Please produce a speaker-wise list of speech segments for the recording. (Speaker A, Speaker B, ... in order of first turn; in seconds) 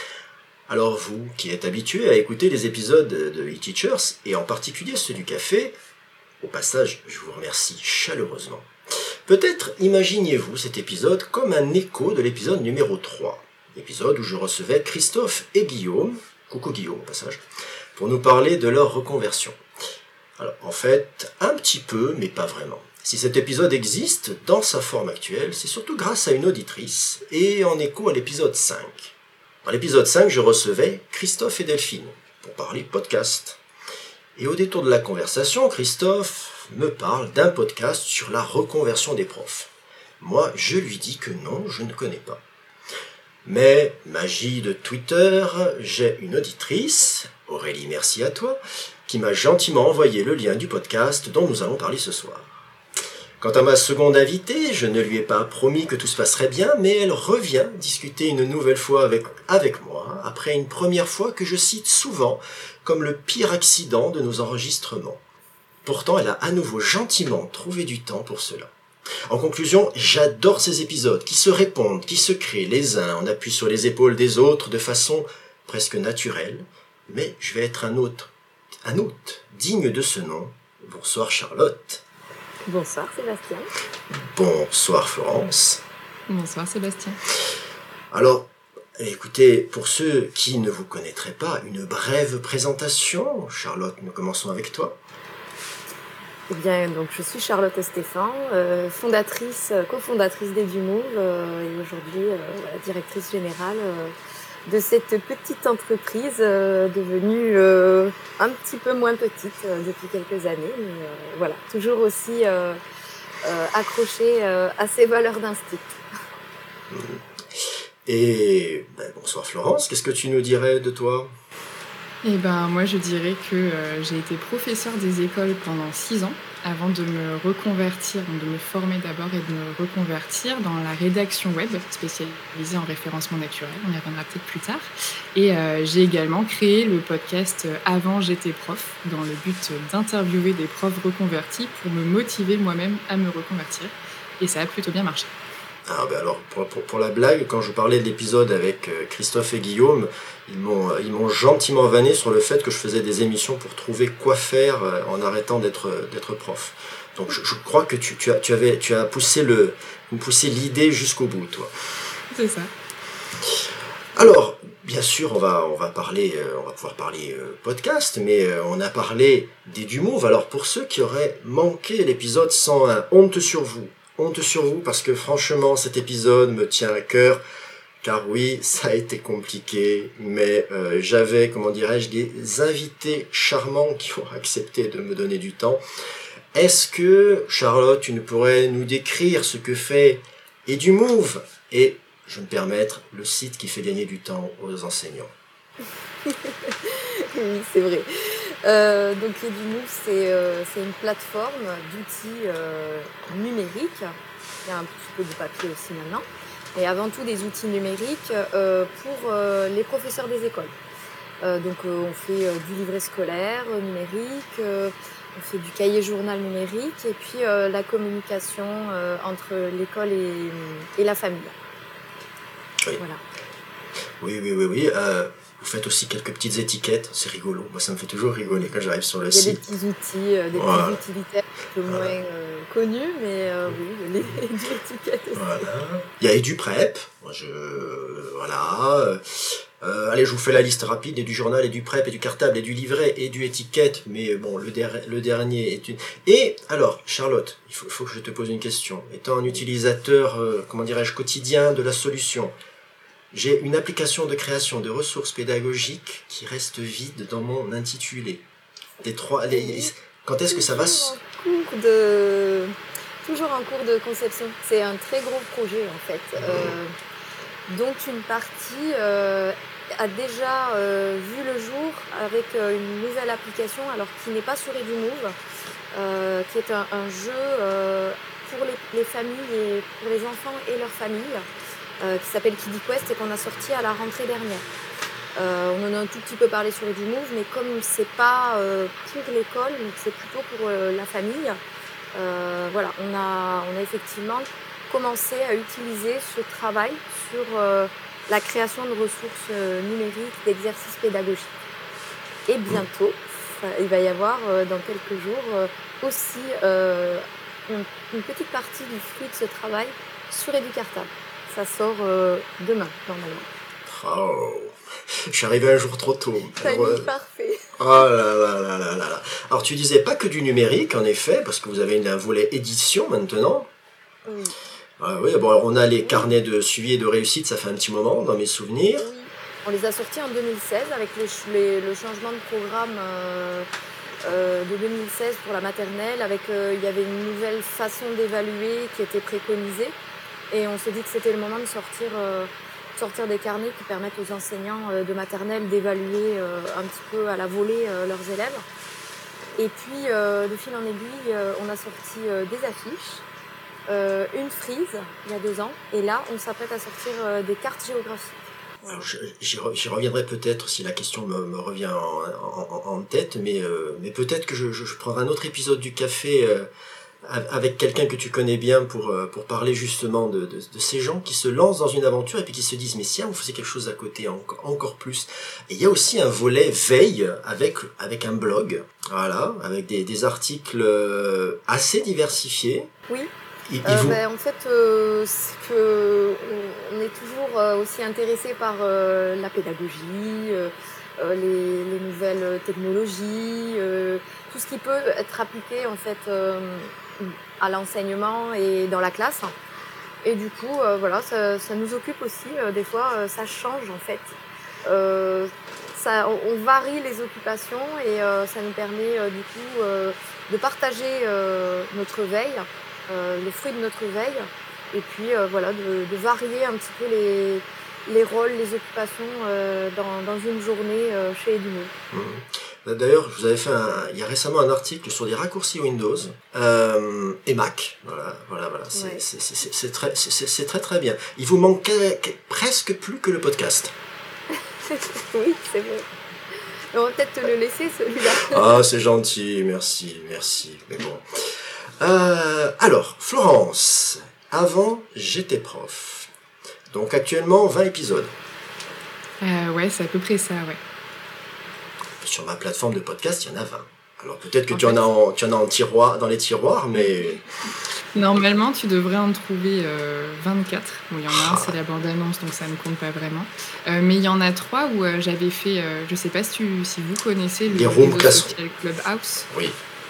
Speaker A: 0.7-5.7, 6.4-8.7, 9.2-17.4, 17.9-19.6, 20.4-33.6, 34.4-42.4, 43.4-52.5, 53.4-65.2, 65.8-68.7, 69.3-78.3, 78.8-82.0, 84.1-85.8, 88.1-95.0, 116.9-121.3, 145.9-161.7, 164.1-177.4, 178.0-185.8, 186.5-195.3, 224.2-229.6, 230.5-231.0, 231.9-232.1, 235.3-252.5, 253.3-258.4, 259.0-261.1, 266.4-266.7, 313.9-317.1, 317.8-323.7, 325.0-329.1, 358.9-366.7, 367.2-382.9, 383.7-384.2, 422.1-433.9, 438.4-446.3, 446.9-448.4, 452.2-457.4, 461.3-461.8, 467.7-468.5, 469.5-469.8
Speaker B: 82.7-83.7, 96.5-104.1, 104.7-112.8, 113.4-115.9, 196.2-204.1, 204.7-206.2, 206.8-210.7, 211.4-221.5, 229.3-235.6, 259.5-259.9, 260.5-266.9, 267.7-275.3, 275.9-281.4, 282.0-284.6, 285.3-291.6, 292.1-301.6, 302.5-313.5, 316.6-317.7, 324.2-324.5, 326.0-326.3, 329.0-333.7, 334.2-339.9, 340.5-348.6, 349.6-353.2, 353.9-359.0, 383.8-399.5, 400.2-404.3, 404.9-421.9, 428.9-429.2, 434.9-436.1, 436.9-438.8
Speaker C: 86.3-87.2, 122.2-145.3, 162.3-162.7, 449.4-450.8, 454.7-455.0, 458.1-469.5